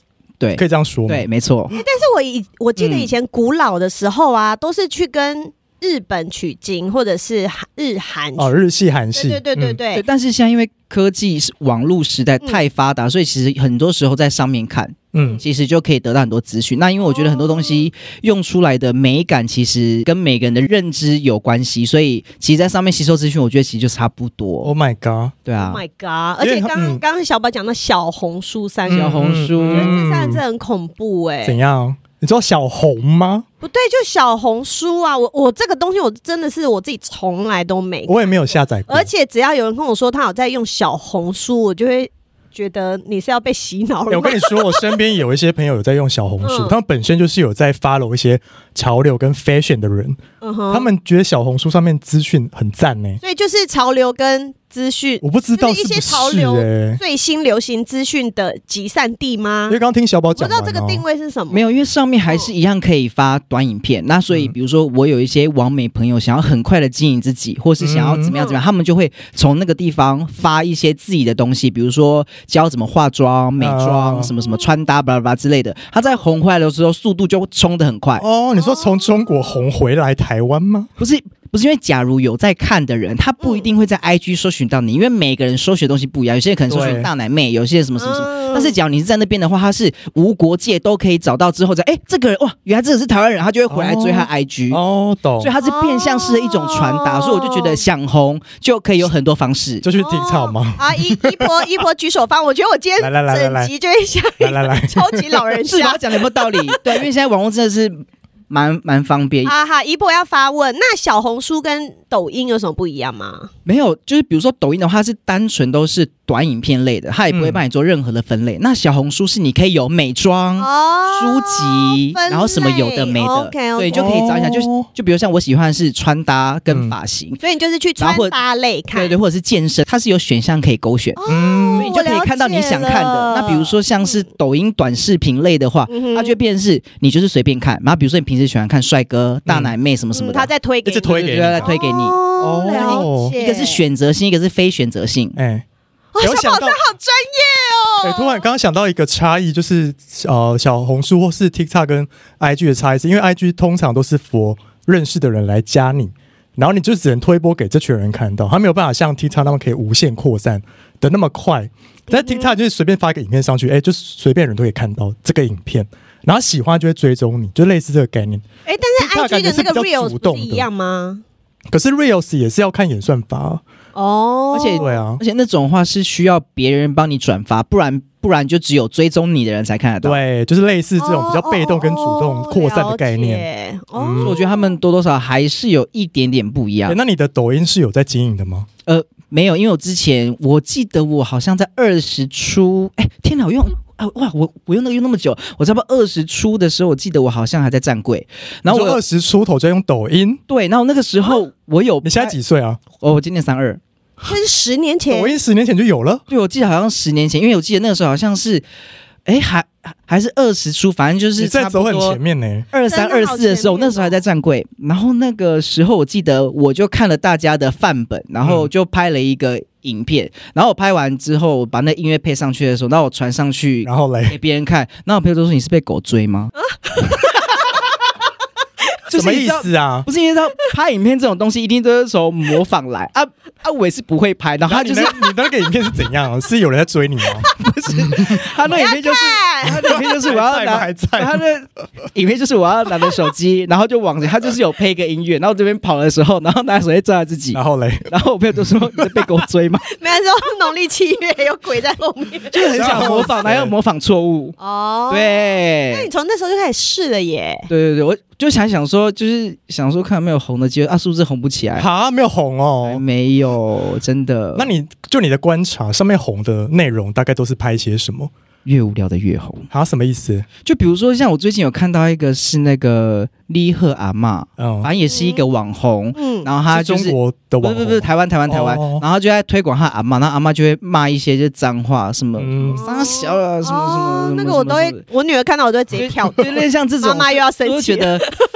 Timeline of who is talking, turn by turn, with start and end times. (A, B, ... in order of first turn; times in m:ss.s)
0:00.4-0:01.8 A
0:00.6-0:01.3 B
0:01.7-0:08.6 C
0:02.8-0:03.1 A
0:08.4-0:09.8 B
0:09.2-0:10.0 C
0:09.9-0:24.7 A
0:15.1-0:15.4 B
0:17.0-0:17.9 C
0:24.6-0:25.4 B
0:25.5-0:25.8 A
0:25.6-0:31.6 C
0:26.4-0:27.0 B
0:28.9-0:30.4 B
0:28.9-0:30.0 A
0:31.4-0:33.4 B
0:33.6-0:38.2 C
0:38.1-0:39.1 B
0:38.9-0:44.8 C
0:44.1-0:50.2 B
0:46.4-0:46.8 C
0:50.4-0:50.9 C
0:50.7-0:53.2 B
0:53.2-0:59.8 C
0:55.2-0:57.0 B
0:59.7-1:01.0 B
1:00.4-1:01.6 C
1:01.5-1:18.2 A
1:07.8-1:08.4 B
1:08.3-1:08.6 C
1:13.6-1:14.3 B
1:18.2-1:20.9 B
1:18.6-1:19.1 C
1:21.0-1:34.8 A
1:23.4-1:23.7 C
1:26.7-1:27.1 B
1:28.0-1:28.8 C
1:33.7-1:35.5 B
1:35.4-1:39.9 A
1:35.6-1:37.8 C
1:39.8-1:41.5 B
1:40.0-1:47.0 C
1:43.0-1:43.7 B
1:44.4-1:45.4 B
1:45.7-1:49.5 A
1:49.4-1:53.5 C
1:53.6-2:07.4 A
1:57.3-1:57.6 B
2:00.6-2:04.3 C
2:03.9-2:04.9 B
2:06.7-2:07.0 B
2:07.4-2:09.2 C
2:08.0-2:08.3 A
2:08.9-2:11.2 A
2:11.2-2:14.2 C
2:11.3-2:11.9 B
2:11.8-2:20.5 A
2:15.9-2:16.4 C
2:19.5-2:19.8 B
2:20.2-2:23.8 C
2:20.8-2:21.7 B
2:21.1-2:22.2 A
2:22.4-2:23.4 B
2:22.7-2:25.4 A
2:25.4-2:25.6 B
2:26.1-2:28.4 C
2:26.2-2:26.8 B
2:28.0-2:48.4 B
2:42.1-2:42.6 C
2:48.7-2:51.2 C
2:49.0-2:50.7 B
2:51.7-2:53.6 B
2:54.0-2:54.9 C
2:54.5-3:00.2 A
2:54.8-2:55.2 B
3:00.0-3:03.4 B
3:01.0-3:04.7 C
3:04.0-3:04.4 B
3:04.2-3:07.0 A
3:06.9-3:08.7 B
3:08.9-3:19.0 A
3:18.7-3:20.4 B
3:20.5-3:22.4 A
3:22.0-3:22.8 B
3:23.0-3:23.8 A
3:24.2-3:25.4 C
3:25.1-3:26.2 B
3:26.3-3:28.6 A
3:29.3-3:32.2 A
3:31.4-3:32.7 B
3:32.7-3:46.5 A
3:32.9-3:34.2 C
3:38.4-3:38.7 B
3:43.8-3:44.4 B
3:46.9-3:47.7 C
3:49.1-3:55.3 A
3:49.1-3:50.1 B
3:54.7-3:57.5 B
3:57.5-4:09.9 A
3:58.0-3:58.4 B
3:58.6-4:00.0 C
3:59.8-4:01.4 B
4:07.5-4:08.1 B
4:09.0-4:09.3 B
4:09.9-4:13.2 C
4:12.5-4:14.6 A
4:12.7-4:13.7 B
4:14.6-4:17.7 C
4:15.1-4:16.1 A
4:17.7-4:21.9 A
4:21.8-4:23.0 B
4:22.8-4:24.7 A
4:24.6-4:28.3 B
4:28.6-4:29.7 A
4:29.7-4:30.5 B
4:30.6-4:45.0 A
4:34.6-4:34.9 B
4:35.1-4:35.4 C
4:36.2-4:36.5 C
4:36.7-4:39.0 B
4:42.4-4:42.8 B
4:42.8-4:48.4 C
4:46.0-4:48.3 A